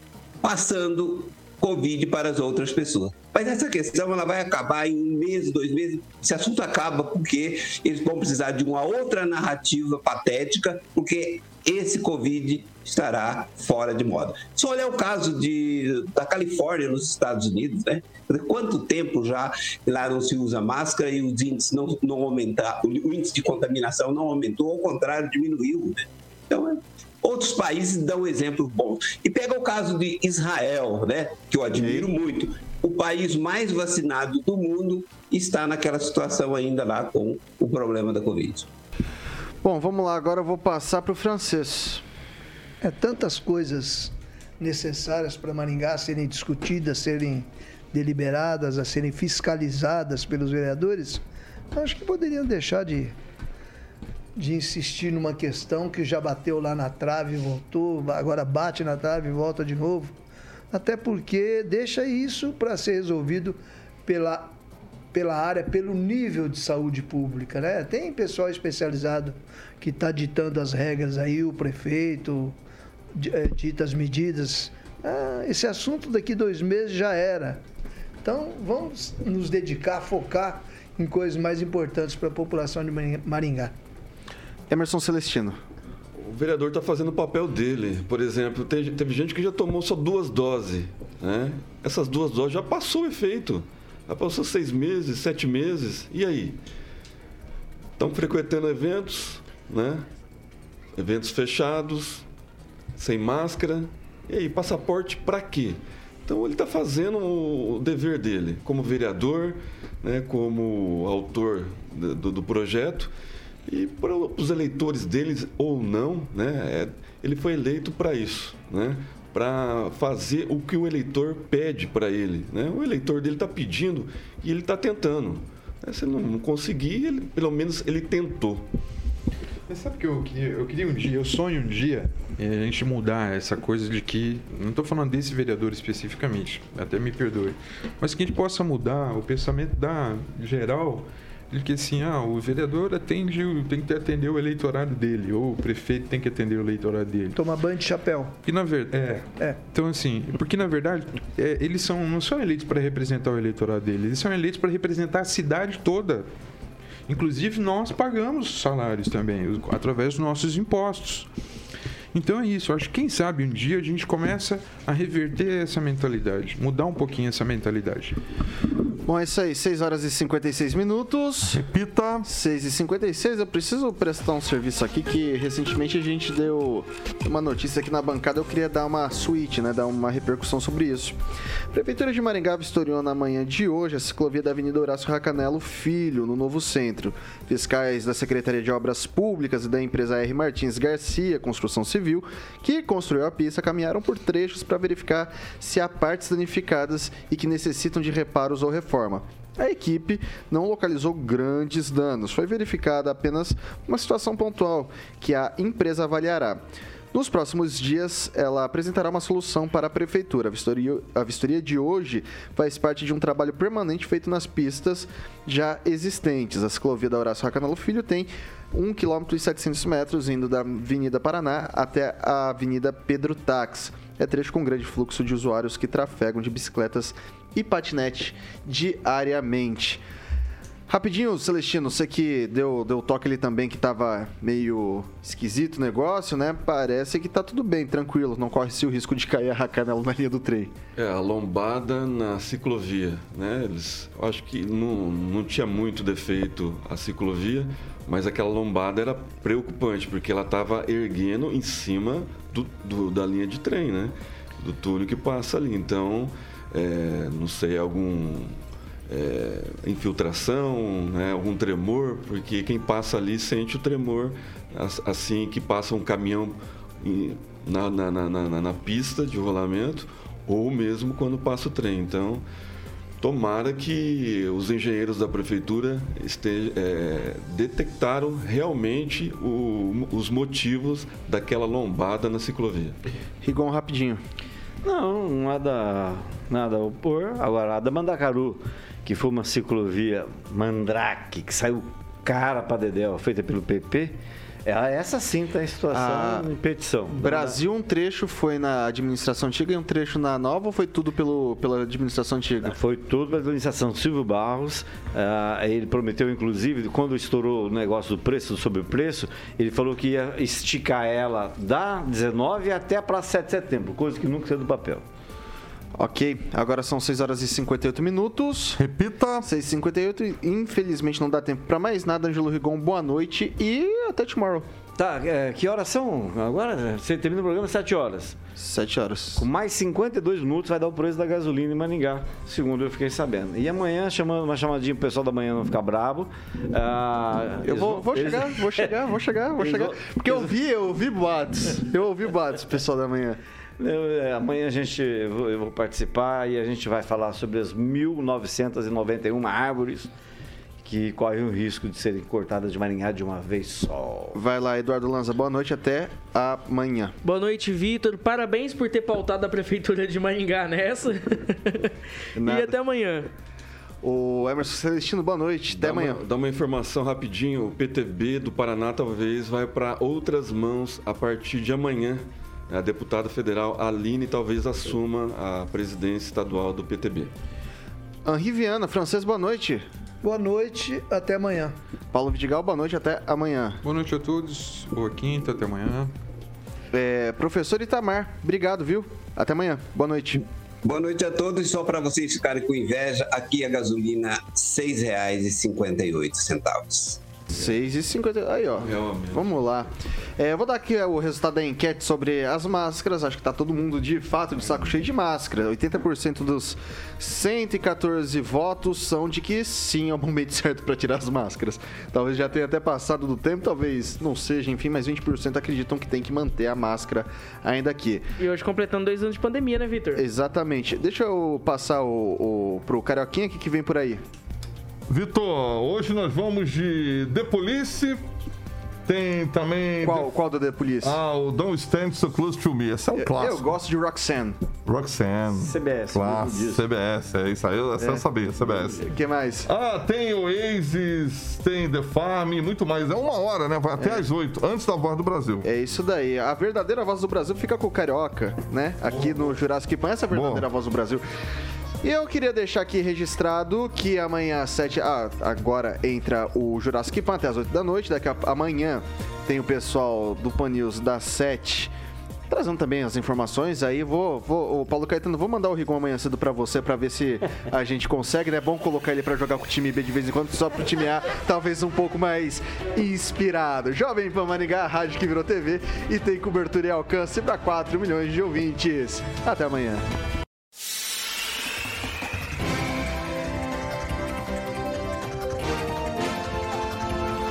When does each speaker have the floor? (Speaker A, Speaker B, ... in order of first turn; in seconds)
Speaker A: 0.4-38.7, 390.8-397.2
Speaker B: 31.7-32.1, 39.6-42.0, 84.7-85.6, 169.0-171.6, 172.2-181.2, 181.7-230.0, 230.9-240.7, 283.4-284.2, 295.9-296.5, 297.1-302.8, 316.0-318.8, 319.4-324.6, 328.6-329.5, 337.6-343.4, 354.3-357.1, 362.4-362.8, 364.0-366.2, 378.2-379.9, 382.1-383.8, 386.9-390.4, 397.5-418.3, 420.1-424.2, 430.0-431.2, 433.1-434.6, 438.0-439.7, 445.6-451.2, 452.0-461.9, 462.5-480.0
Speaker C: 42.8-53.1, 54.4-60.1, 60.7-64.5, 65.1-72.6, 73.1-77.6, 78.2-83.7, 147.3-148.3, 380.2-381.7
Speaker D: 86.2-96.6, 98.0-100.1, 101.0-102.2, 103.0-113.1, 113.7-128.6, 240.9-258.6, 259.1-272.4, 273.2-282.9, 365.7-377.3, 398.8-399.6
Speaker E: 129.7-147.3, 148.4-156.2, 157.1-161.3, 162.1-168.2, 383.8-386.1
Speaker F: 171.5-172.2, 318.8-319.4, 425.1-428.2, 429.1-430.3, 431.0-433.7, 434.9-439.1, 439.6-445.6, 450.3-450.6
Speaker G: 284.8-297.6, 302.6-315.0, 324.9-328.4, 329.4-338.9, 339.6-340.5, 343.8-350.1, 350.8-354.4, 435.5-436.9
Speaker H: 357.2-361.9, 362.4-363.3, 418.4-420.2